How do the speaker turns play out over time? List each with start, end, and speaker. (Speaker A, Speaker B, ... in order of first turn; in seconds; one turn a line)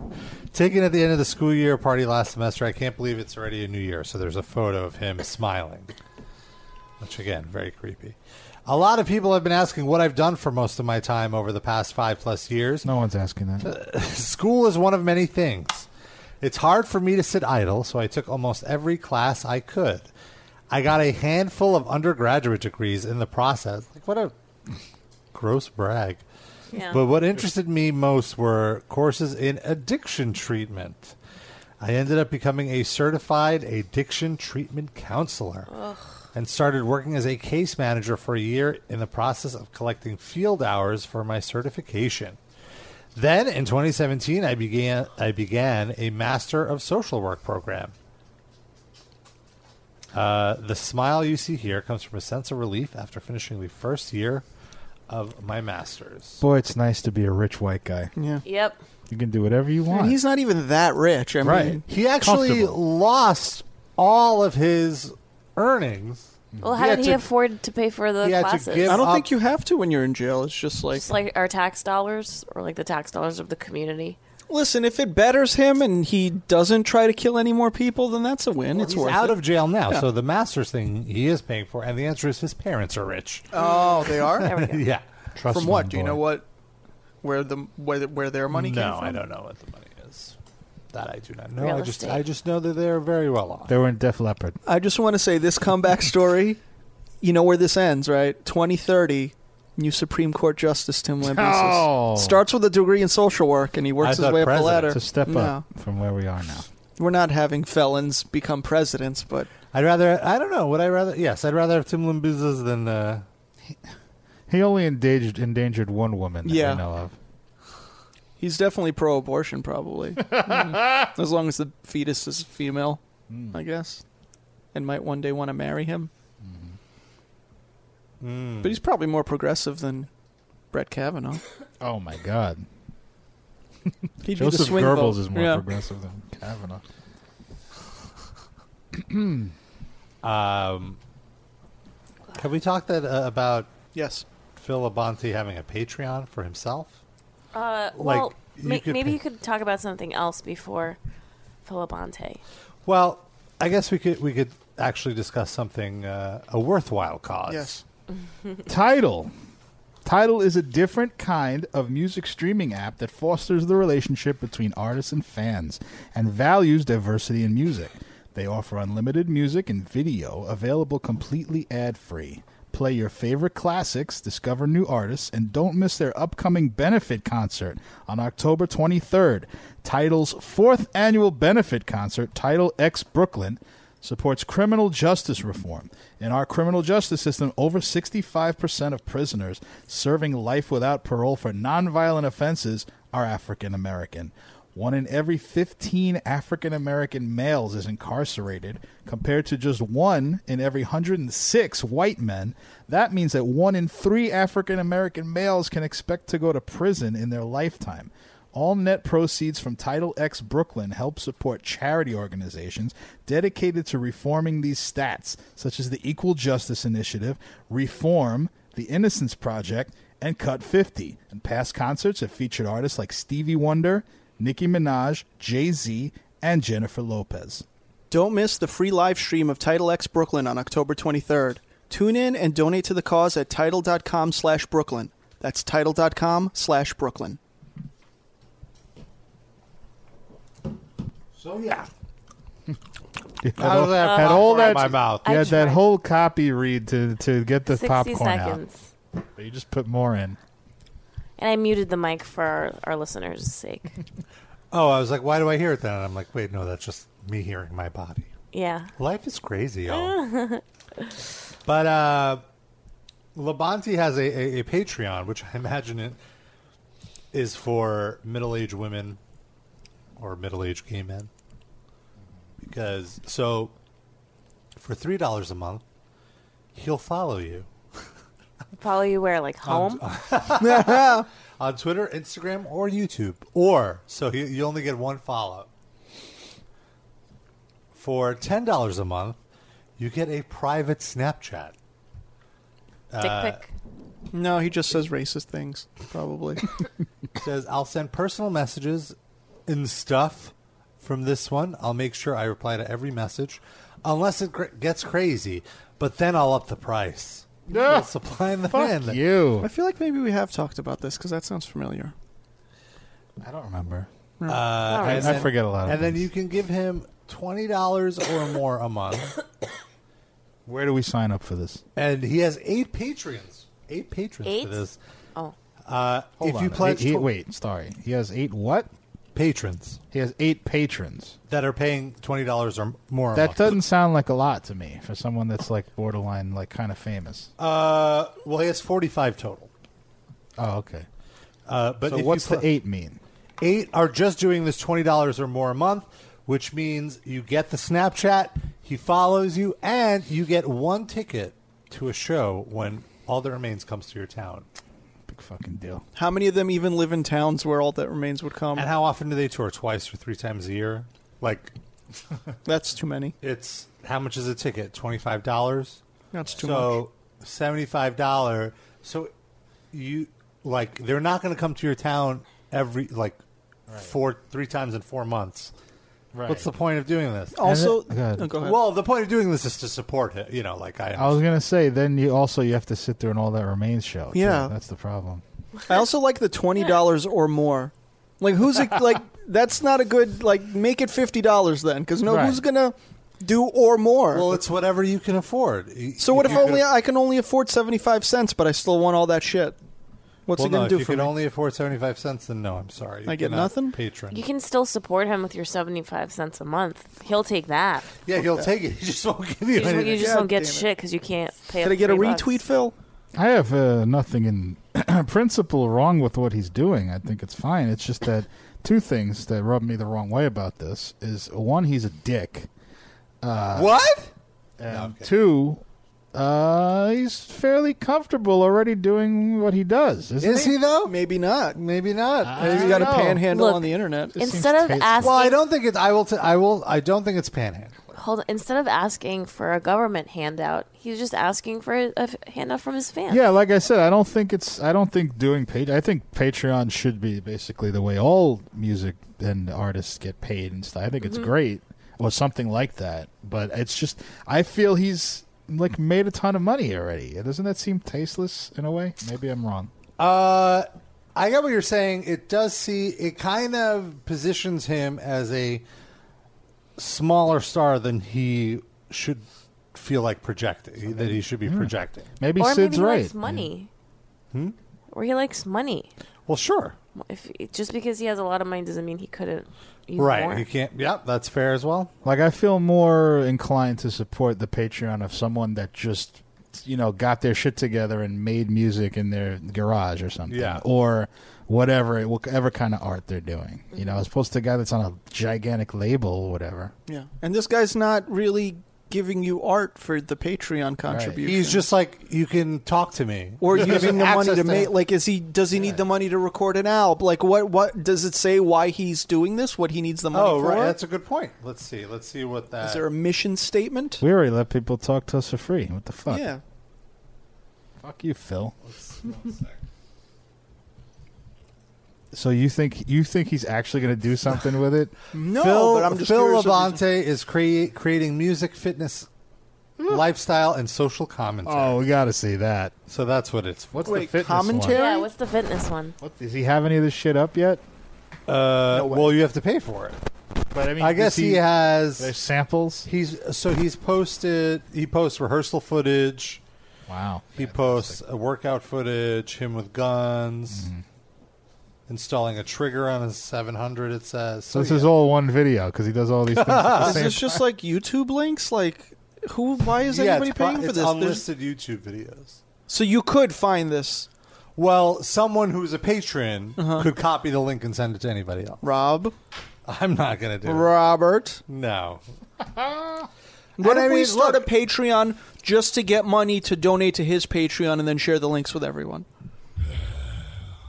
Speaker A: 0.5-5.9
Speaker A: 7.0-12.9
Speaker B: 12.8-13.7
Speaker A: 13.6-15.9
Speaker A: 16.4-20.1
Speaker A: 20.7-24.3
Speaker A: 25.3-26.2
Speaker C: 26.7-27.0
Speaker A: 26.9-31.2
Speaker A: 31.8-35.7
Speaker C: 35.7-36.0
Speaker A: 36.3-42.4
Speaker A: 43.1-47.9
Speaker A: 50.1-54.5
Speaker A: 55.1-56.4
Speaker B: 56.4-58.1
Speaker D: 58.2-58.4
Speaker C: 58.5-58.8
Speaker B: 59.1-60.2
Speaker D: 59.9-61.8
Speaker B: 61.4-62.8
Speaker A: 61.9-67.2
Speaker C: 66.6-69.0
Speaker A: 68.2-69.3
Speaker D: 68.9-71.1
Speaker C: 70.9-74.2
Speaker D: 74.5-80.0
Speaker A: 78.7-83.5
Speaker D: 83.5-84.5
Speaker C: 83.6-84.8
Speaker A: 84.2-85.1
Speaker B: 85.3-86.2
Speaker D: 85.5-86.5
Speaker D: 87.2-89.2
Speaker A: 88.5-90.4
Speaker A: 90.9-93.8
Speaker C: 91.6-92.2
Speaker B: 93.7-94.6
Speaker D: 94.7-96.6
Speaker D: 97.2-105.6
Speaker B: 101.2-102.4
Speaker A: 104.0-105.0
Speaker B: 104.9-106.7
Speaker D: 107.0-109.5
Speaker A: 109.7-113.3
Speaker B: 114.5-117.2
Speaker D: 116.5-116.8
Speaker D: 118.4-123.0
Speaker B: 120.4-120.7
Speaker B: 123.3-123.6
Speaker D: 123.5-124.0
Speaker D: 124.7-126.1
Speaker B: 126.4-126.8
Speaker A: 128.2-128.8
Speaker D: 128.6-130.1
Speaker D: 130.7-131.4
Speaker B: 131.8-132.7
Speaker D: 134.2-135.6
Speaker B: 134.2-136.8
Speaker B: 138.9-139.5
Speaker A: 140.2-141.0
Speaker A: 142.3-143.7
Speaker D: 143.9-144.2
Speaker A: 144.6-147.0
Speaker C: 147.5-151.0
Speaker A: 148.0-149.2
Speaker C: 151.7-152.4
Speaker A: 152.9-157.8
Speaker D: 157.5-157.8
Speaker B: 158.7-159.3
Speaker B: 160.1-227.7
Speaker D: 228.1-237.4
Speaker A: 241.4-241.9
Speaker B: 243.4-248.6
Speaker A: 243.6-245.3
Speaker C: 244.0-245.8
Speaker C: 247.7-248.9
Speaker B: 249.4-250.4
Speaker C: 251.4-254.0
Speaker A: 254.7-258.3
Speaker C: 258.5-258.9
Speaker A: 259.0-260.2
Speaker C: 259.9-260.6
Speaker A: 261.6-262.4
Speaker A: 263.4-266.2
Speaker A: 267.3-269.2
Speaker A: 270.2-271.3
Speaker A: 272.6-273.7
Speaker A: 274.8-275.8
Speaker A: 276.8-277.7
Speaker C: 278.8-280.0
Speaker A: 279.6-285.7
Speaker D: 280.6-281.3
Speaker A: 287.9-289.4
Speaker A: 290.0-291.8
Speaker A: 293.1-293.6
Speaker C: 293.2-293.7
Speaker D: 294.3-296.7
Speaker A: 297.4-299.2
Speaker A: 299.7-309.2
Speaker B: 307.7-308.1
Speaker B: 308.7-309.7
Speaker D: 309.6-312.1
Speaker B: 313.4-314.1
Speaker D: 314.4-314.7
Speaker A: 314.5-319.3
Speaker C: 314.9-315.4
Speaker B: 314.9-316.3
Speaker B: 320.7-321.8
Speaker A: 322.0-325.0
Speaker C: 324.4-324.8
Speaker A: 325.9-327.3
Speaker B: 326.4-328.9
Speaker A: 329.4-330.0
Speaker B: 330.1-331.4
Speaker A: 331.5-333.8
Speaker B: 333.3-337.5
Speaker A: 337.6-339.7
Speaker B: 340.6-341.1
Speaker A: 341.7-342.7
Speaker B: 342.1-343.2
Speaker A: 343.6-354.7
Speaker B: 355.3-356.0
Speaker D: 356.2-358.9
Speaker A: 358.8-361.7
Speaker D: 362.6-363.4
Speaker A: 363.4-366.0
Speaker D: 366.3-367.0
Speaker A: 366.6-369.3
Speaker A: 369.9-373.4
Speaker A: 373.9-375.7
Speaker B: 376.3-376.7
Speaker A: 376.5-377.6
Speaker D: 377.6-378.8
Speaker B: 377.6-378.6
Speaker A: 378.5-381.4
Speaker B: 381.2-385.4
Speaker D: 384.3-384.7
Speaker D: 385.9-394.6
Speaker B: 392.3-392.6
Speaker A: 394.3-396.9
Speaker D: 396.2-399.8
Speaker D: 400.5-401.3
Speaker A: 400.6-404.4
Speaker D: 403.3-404.0
Speaker C: 404.3-408.1
Speaker A: 408.3-410.4
Speaker C: 409.7-412.6
Speaker D: 409.9-410.9
Speaker D: 411.8-412.9
Speaker B: 413.4-422.7
Speaker B: 423.4-423.9
Speaker A: 423.7-424.3
Speaker B: 424.8-425.8
Speaker A: 424.9-425.3
Speaker B: 426.3-430.8
Speaker A: 430.4-431.2
Speaker D: 431.1-431.8
Speaker A: 431.7-433.2
Speaker B: 432.4-433.5
Speaker D: 432.5-434.4
Speaker C: 433.5-435.6
Speaker B: 434.4-435.4
Speaker A: 435.2-438.0
Speaker C: 438.2-443.4
Speaker B: 443.3-459.9
Speaker A: 460.2-465.9
Speaker A: 467.0-472.3
Speaker B: 471.1-473.7
Speaker C: 472.6-473.9
Speaker C: 475.1-476.1
Speaker A: 476.5-477.0
Speaker C: 477.2-480.7
Speaker A: 480.2-482.1
Speaker B: 482.2-496.9
Speaker A: 490.5-490.9
Speaker D: 497.1-501.9
Speaker B: 501.1-501.4
Speaker A: 501.4-504.9
Speaker D: 503.6-511.0
Speaker A: 510.3-513.1
Speaker D: 512.8-514.2
Speaker B: 514.2-516.5
Speaker D: 516.3-516.6
Speaker B: 518.0-518.8
Speaker A: 518.8-519.8
Speaker B: 522.3-525.1
Speaker D: 525.3-527.0
Speaker A: 525.5-529.3
Speaker A: 530.1-532.0
Speaker B: 531.6-533.0
Speaker A: 533.1-534.2
Speaker B: 533.9-535.0
Speaker D: 534.0-535.3
Speaker C: 534.9-536.2
Speaker B: 536.2-537.8
Speaker A: 538.5-540.2
Speaker B: 539.0-539.3
Speaker B: 540.7-543.1
Speaker A: 541.0-542.4
Speaker A: 543.1-546.6
Speaker B: 547.1-548.2
Speaker A: 547.6-550.9
Speaker B: 550.7-551.0
Speaker A: 552.1-555.1
Speaker B: 554.7-557.6
Speaker A: 556.5-557.3
Speaker D: 557.0-561.5
Speaker A: 560.0-562.6
Speaker D: 562.9-564.3
Speaker A: 564.8-568.8
Speaker D: 566.8-567.1
Speaker D: 568.8-569.4
Speaker A: 569.9-570.9
Speaker D: 570.6-571.6
Speaker A: 571.7-572.2
Speaker B: 572.8-573.3
Speaker A: 573.8-574.7
Speaker D: 573.8-579.3